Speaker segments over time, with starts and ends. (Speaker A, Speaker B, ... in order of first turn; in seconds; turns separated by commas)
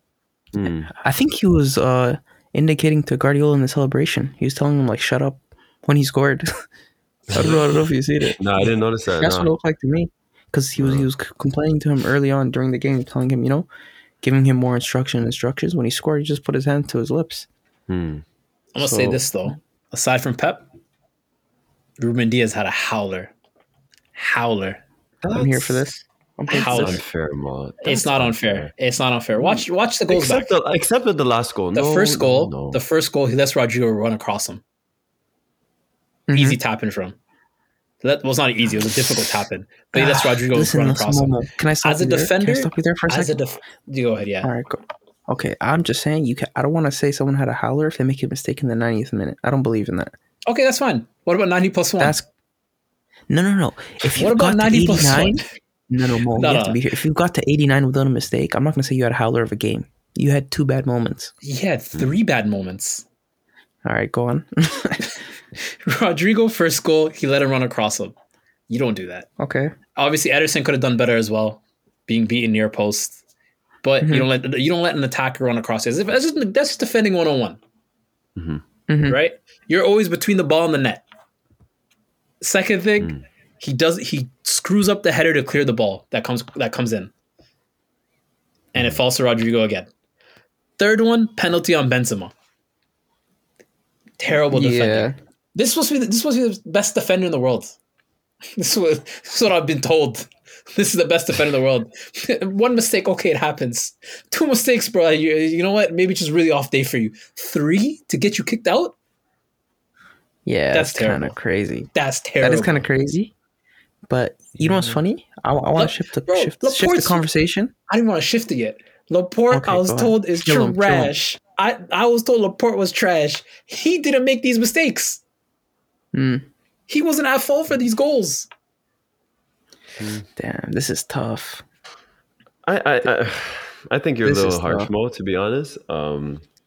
Speaker A: 0.5-0.9, Speaker B: 1.0-6.5, Speaker A: 7.3-7.8, Speaker B: 7.3-8.7, Speaker A: 8.4-9.5, Speaker B: 9.2-13.7, Speaker A: 10.8-11.1, Speaker B: 14.2-17.5, Speaker A: 17.9-18.2, Speaker C: 18.8-20.6, Speaker B: 18.8-19.3, Speaker C: 22.0-23.3, Speaker C: 24.1-24.8, Speaker A: 25.2-25.9, Speaker B: 25.3-27.0, Speaker C: 26.5-27.0, Speaker A: 26.7-28.7, Speaker C: 27.8-30.5, Speaker A: 30.1-32.8, Speaker C: 31.8-34.6, Speaker B: 36.3-36.6, Speaker C: 36.3-37.1, Speaker C: 38.0-44.5, Speaker B: 39.9-43.4, Speaker B: 44.4-50.1, Speaker C: 50.5-52.2, Speaker B: 52.0-52.3, Speaker B: 53.3-61.3, Speaker C: 54.1-55.5, Speaker C: 56.4-56.8, Speaker C: 61.4-63.0, Speaker B: 63.9-65.1, Speaker C: 65.6-68.1, Speaker C: 68.7-69.3, Speaker B: 69.4-69.7, Speaker C: 70.0-73.2, Speaker C: 73.8-77.6, Speaker B: 74.0-74.3, Speaker A: 78.4-78.6, Speaker B: 78.9-79.2, Speaker C: 79.1-81.0, Speaker C: 82.4-87.1, Speaker C: 88.7-89.9, Speaker C: 90.8-92.3, Speaker C: 94.2-97.8, Speaker B: 94.5-95.2, Speaker C: 98.5-109.0, Speaker B: 110.5-113.3, Speaker C: 110.7-111.3, Speaker C: 111.9-112.8, Speaker B: 114.1-117.7, Speaker C: 115.8-117.2, Speaker C: 117.9-125.2, Speaker B: 119.5-121.1, Speaker B: 126.1-126.5, Speaker C: 126.9-128.5, Speaker A: 130.0-130.2, Speaker B: 130.4-131.6, Speaker A: 132.7-136.4, Speaker B: 134.2-134.9